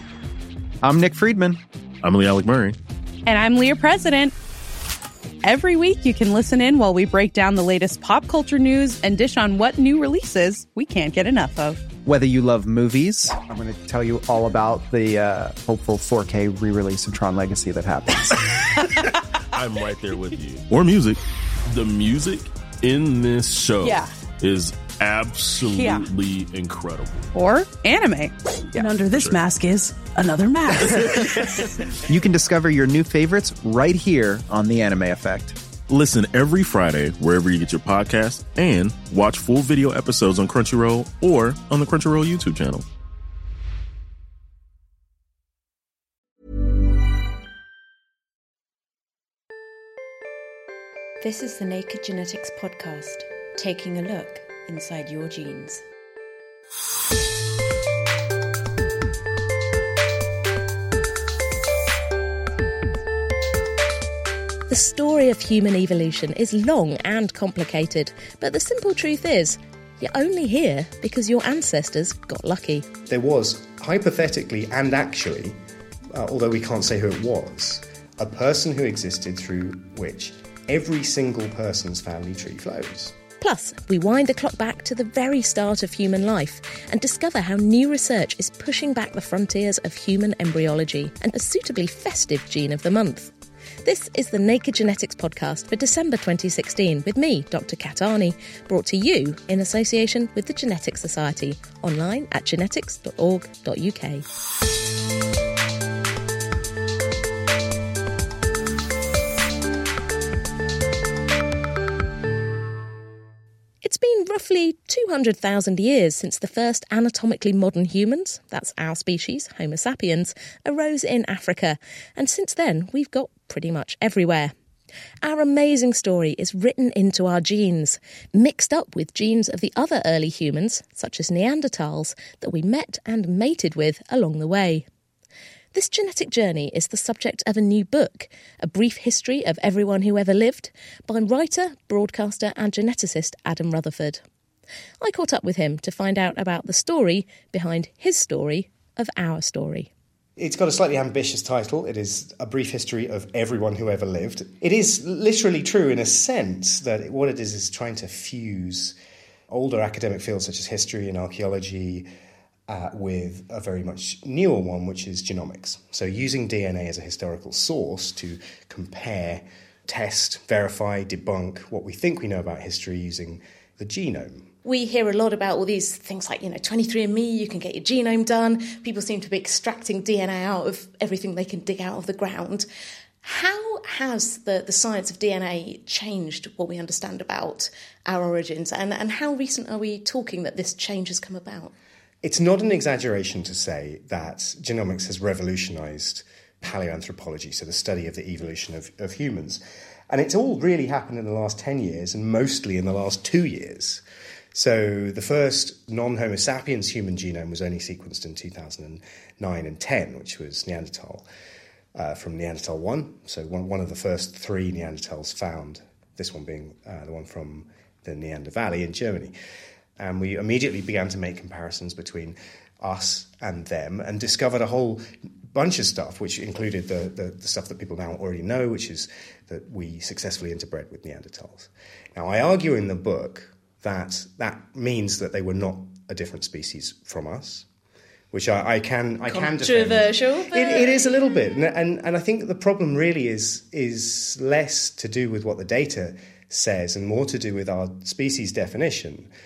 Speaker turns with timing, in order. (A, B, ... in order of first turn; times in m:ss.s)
0:00.8-0:01.6 A
0:02.0-0:02.8 B
0:03.2-0:04.3 C
0:05.4-0:11.8 C
0:12.0-0:13.5 A
0:13.5-0:18.3 D
0:19.5-0:27.2 B
0:23.8-0:24.1 C
0:25.6-0:26.1 C
0:27.3-0:28.3 C
0:28.7-0:31.5 E
0:29.1-0:29.4 B
0:32.1-0:35.5 A
0:34.9-0:35.3 D
0:35.9-0:42.9 B
0:51.2-0:55.8 F
1:04.7-1:12.9 G
1:13.1-1:15.6 H
1:16.1-1:23.2 H
1:23.4-1:33.3 G
1:33.8-1:44.2 G
1:53.8-2:04.5 G
2:05.2-2:14.8 G
2:15.7-2:24.2 G
2:25.0-2:29.9 G
2:30.4-2:39.0 H
2:39.5-2:42.1 H
2:42.7-2:54.5 H
2:54.6-3:02.7 G
3:03.2-3:11.7 G
3:12.2-3:24.0 H
3:24.5-3:31.2 H
3:32.0-3:39.3 H
3:40.0-3:57.7 H
3:58.3-4:09.3 H
3:59.3-4:01.1 G